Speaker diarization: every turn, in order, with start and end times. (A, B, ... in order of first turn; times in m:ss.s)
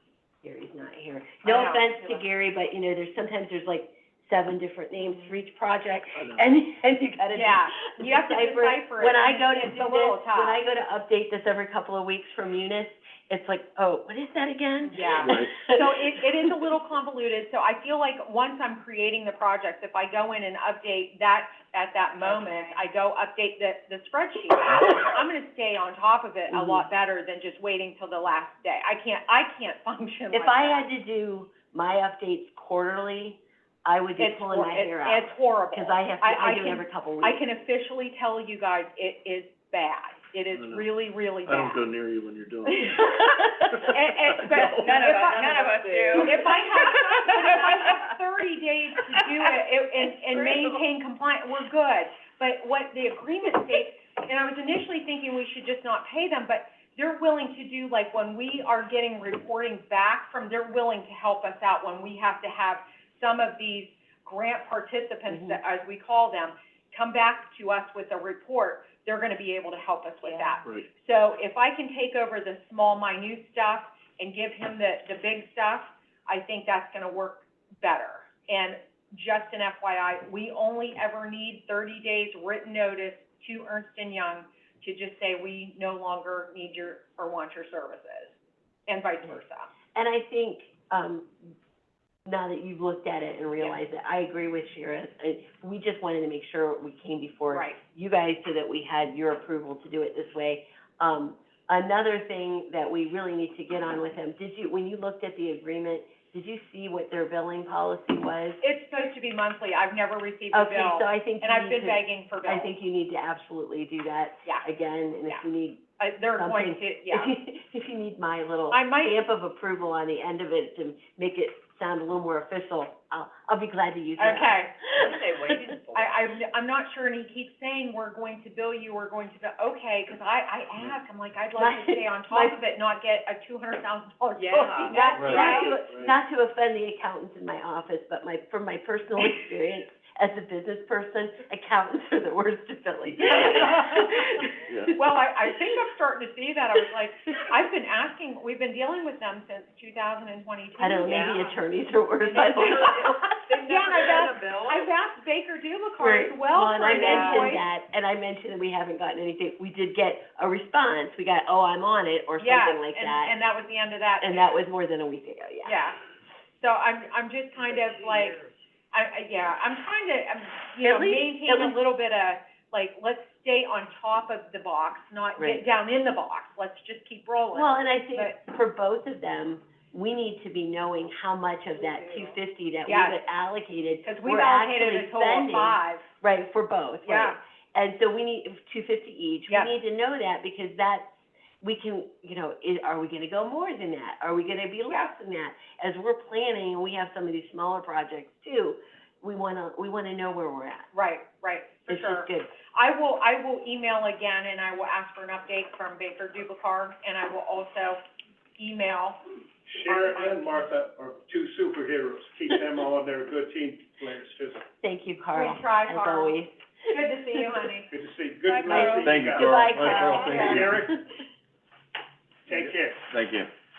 0:00.4-0:16.6 A
0:01.4-0:02.2 B
0:07.3-0:10.6 B
0:14.9-0:30.9 B
0:15.1-0:15.5 C
0:22.2-0:22.8 D
0:26.5-0:26.9 A
0:30.3-0:37.4 A
0:34.2-0:41.8 B
0:40.5-0:40.9 C
0:41.4-0:43.0 C
0:43.7-1:28.3 B
0:43.8-0:45.0 C
0:44.4-0:48.2 D
1:05.3-1:05.6 A
1:10.3-1:10.5 A
1:28.9-1:29.7 B
1:30.0-1:31.3 A
1:32.3-1:48.6 A
1:37.5-1:37.8 B
1:48.6-1:52.7 B
1:50.5-1:55.8 A
1:56.0-1:57.3 B
1:56.4-2:05.6 A
1:58.7-1:59.2 B
2:04.2-2:04.8 B
2:04.9-2:06.3 D
2:05.9-2:15.8 B
2:11.6-2:12.6 A
2:14.3-2:15.7 D
2:14.9-2:24.6 A
2:15.2-2:16.1 C
2:23.2-2:31.6 B
2:24.6-2:24.9 C
2:30.8-2:33.3 A
2:32.3-2:34.9 D
2:32.4-2:32.9 B
2:33.5-2:37.6 B
2:36.0-2:43.4 A
2:36.9-2:37.5 D
2:42.4-2:44.6 B
2:44.2-2:45.8 A
2:45.6-2:46.0 B
2:46.6-2:48.4 B
2:47.7-2:48.5 D
2:48.9-2:58.4 B
2:50.8-2:51.8 A
2:55.4-2:55.6 A
2:57.5-3:20.9 A
3:01.8-3:02.2 D
3:02.9-3:03.2 B
3:04.0-3:06.1 B
3:07.0-3:07.4 B
3:14.9-3:15.1 B
3:20.9-3:28.0 B
3:21.9-3:22.5 A
3:28.6-3:29.2 B
3:29.7-3:34.6 E
3:29.8-3:30.5 B
3:34.8-3:36.6 A
3:35.3-3:37.9 B
3:37.9-3:41.0 E
3:38.4-3:39.2 B
3:38.7-3:41.0 A
3:39.0-3:40.8 C
3:39.9-3:40.5 B
3:42.5-3:43.1 E
3:43.1-3:43.5 C